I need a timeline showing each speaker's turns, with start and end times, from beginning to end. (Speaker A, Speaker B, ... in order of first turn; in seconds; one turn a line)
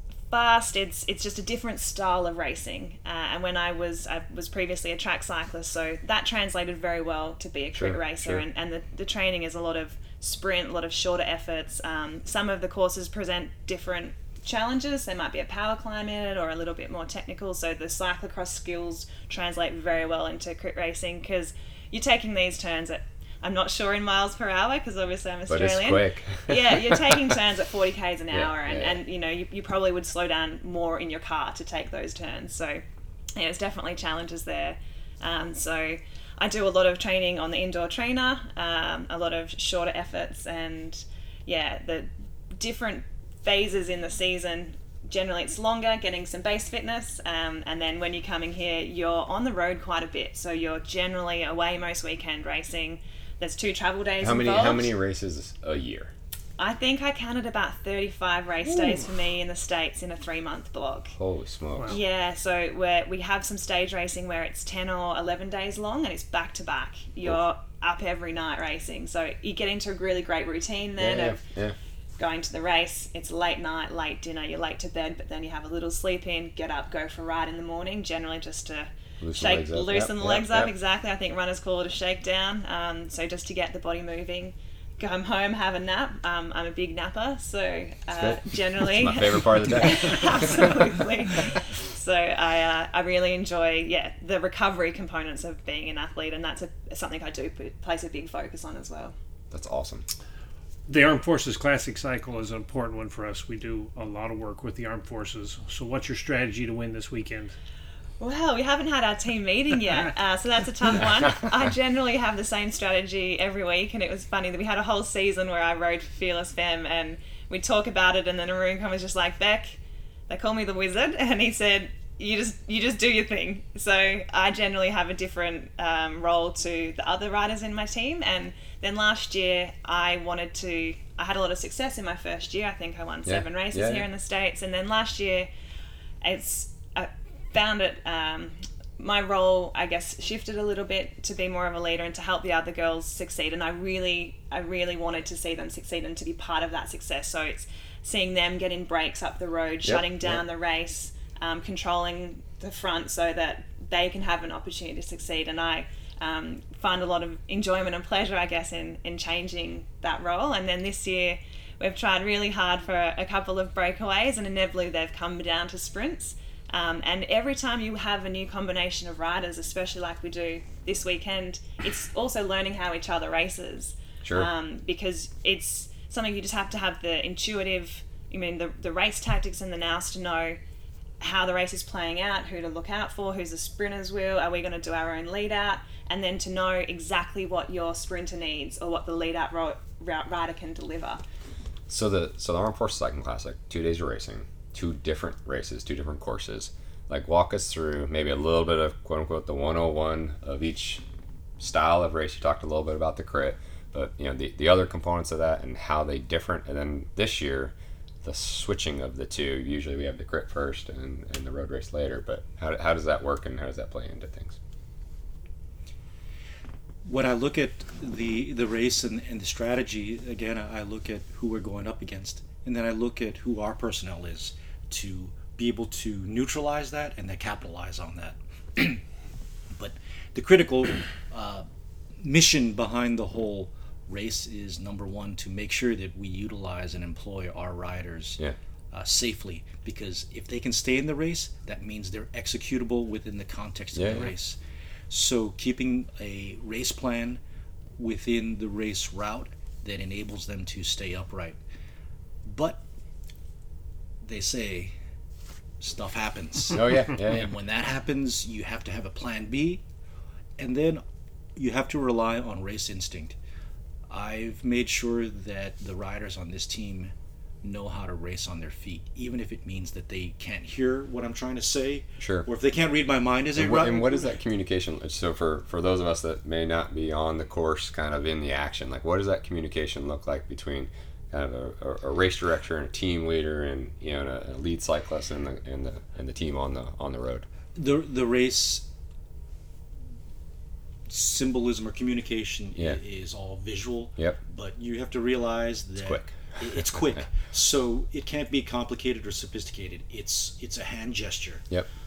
Speaker A: 0.3-32.8
Speaker B: 7.7-8.4
Speaker B: 25.5-27.3
Speaker B: 28.3-29.0
Speaker A: 33.4-54.9
Speaker B: 54.2-56.1
Speaker A: 56.6-61.1
Speaker B: 61.1-62.0
Speaker A: 61.9-71.4
Speaker B: 71.0-71.8
Speaker A: 72.2-99.1
Speaker B: 79.2-80.7
Speaker B: 88.1-90.9
Speaker B: 99.5-100.0
Speaker C: 100.9-107.6
Speaker A: 108.2-135.5
Speaker B: 133.2-134.1
Speaker A: 136.2-180.6
Speaker B: 149.8-150.4
Speaker B: 174.2-174.5
Speaker A: 181.2-191.2
Speaker B: 191.9-201.0
Speaker B: 201.6-214.6
Speaker D: 217.0-229.0
Speaker D: 229.7-231.7
Speaker D: 232.2-238.4
Speaker D: 238.9-244.6
Speaker B: 243.9-244.3
Speaker D: 245.1-247.4
Speaker D: 248.0-251.6
Speaker D: 252.4-252.8
Speaker D: 254.2-254.9
Speaker D: 255.8-259.8
Speaker B: 256.7-257.5
Speaker D: 260.6-261.0
Speaker D: 261.6-263.4
Speaker D: 264.1-274.3
Speaker B: 272.2-272.5
Speaker B: 273.5-287.4
Speaker D: 287.7-288.9
Speaker D: 291.1-301.6
Speaker B: 296.0-296.8